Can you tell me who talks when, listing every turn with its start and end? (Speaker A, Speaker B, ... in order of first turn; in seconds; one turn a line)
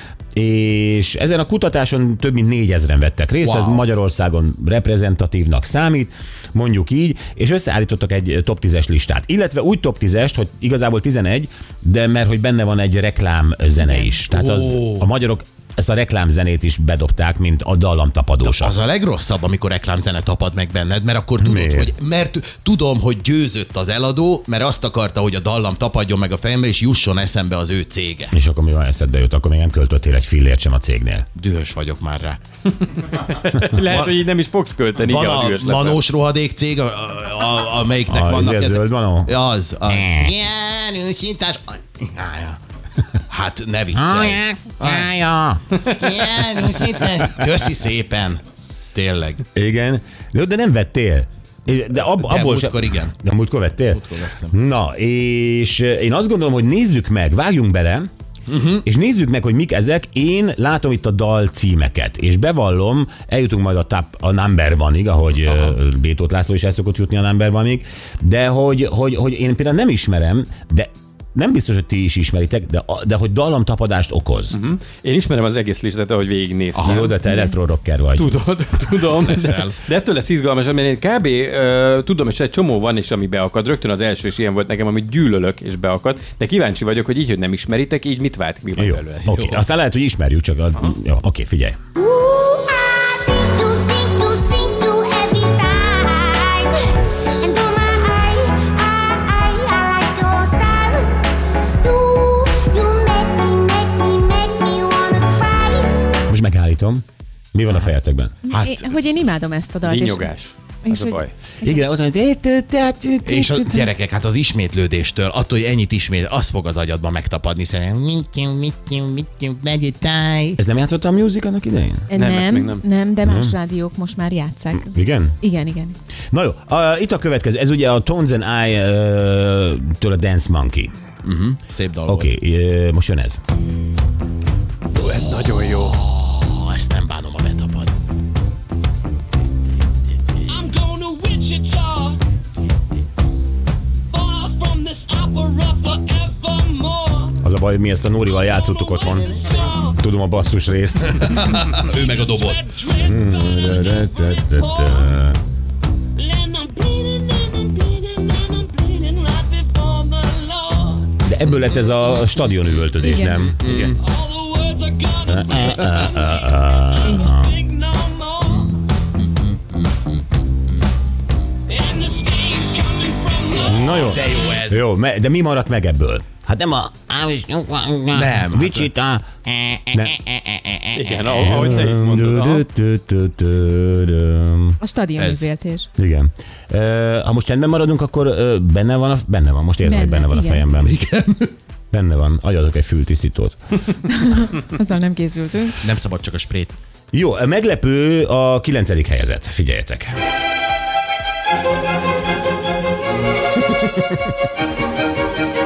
Speaker A: 0.3-18.8
Speaker B: 3.4-3.8
Speaker B: 14.3-15.1
Speaker B: 18.4-28.3
Speaker A: 21.4-21.9
Speaker A: 28.3-31.2
Speaker B: 31.4-32.4
Speaker C: 33.1-36.0
Speaker B: 33.9-34.1
Speaker B: 35.0-42.6
Speaker A: 38.1-39.3
Speaker A: 39.8-40.3
Speaker B: 43.3-45.1
Speaker A: 43.9-45.7
Speaker B: 45.8-48.4
Speaker B: 48.9-49.4
Speaker A: 49.5-58.1
Speaker B: 52.2-53.1
Speaker B: 53.9-54.5
Speaker B: 58.5-58.9
Speaker A: 58.8-74.6
Speaker C: 74.5-77.1
Speaker B: 76.7-77.1
Speaker A: 76.8-78.3
Speaker C: 78.2-89.6
Speaker B: 79.1-79.8
Speaker A: 88.8-91.8
Speaker D: 92.0-101.2
Speaker D: 101.8-106.0
Speaker A: 106.3-108.3
Speaker E: 108.4-110.3
Speaker B: 108.5-109.3
Speaker C: 109.8-111.3
Speaker E: 110.8-111.8
Speaker A: 111.6-113.9
Speaker B: 113.2-120.6
Speaker A: 120.6-122.1
Speaker E: 122.1-126.0
Speaker C: 122.1-122.8
Speaker A: 123.2-123.5
Speaker A: 124.8-125.4
Speaker A: 126.3-130.9
Speaker B: 131.2-132.3
Speaker A: 132.0-133.4
Speaker C: 134.9-136.0
Speaker B: 135.7-137.9
Speaker F: 140.5-142.2
Speaker F: 144.1-147.3
Speaker A: 147.4-151.6
Speaker F: 148.7-149.9
Speaker B: 151.2-152.7
Speaker F: 151.9-155.0
Speaker A: 152.9-155.4
Speaker F: 156.2-161.1
Speaker A: 161.2-163.9
Speaker E: 163.0-163.5
Speaker B: 163.5-163.9
Speaker F: 164.1-166.2
Speaker A: 165.2-167.6
Speaker F: 166.9-168.7
Speaker E: 167.0-167.3
Speaker F: 171.7-173.8
Speaker A: 173.6-184.8
Speaker B: 174.0-174.8
Speaker B: 178.1-178.9
Speaker C: 180.9-182.6
Speaker E: 184.8-185.9
Speaker B: 185.2-185.5
Speaker A: 186.0-190.9
Speaker E: 189.8-190.6
Speaker B: 190.8-191.5
Speaker A: 191.9-193.6
Speaker E: 194.1-195.8
Speaker B: 195.8-196.8
Speaker A: 197.1-200.1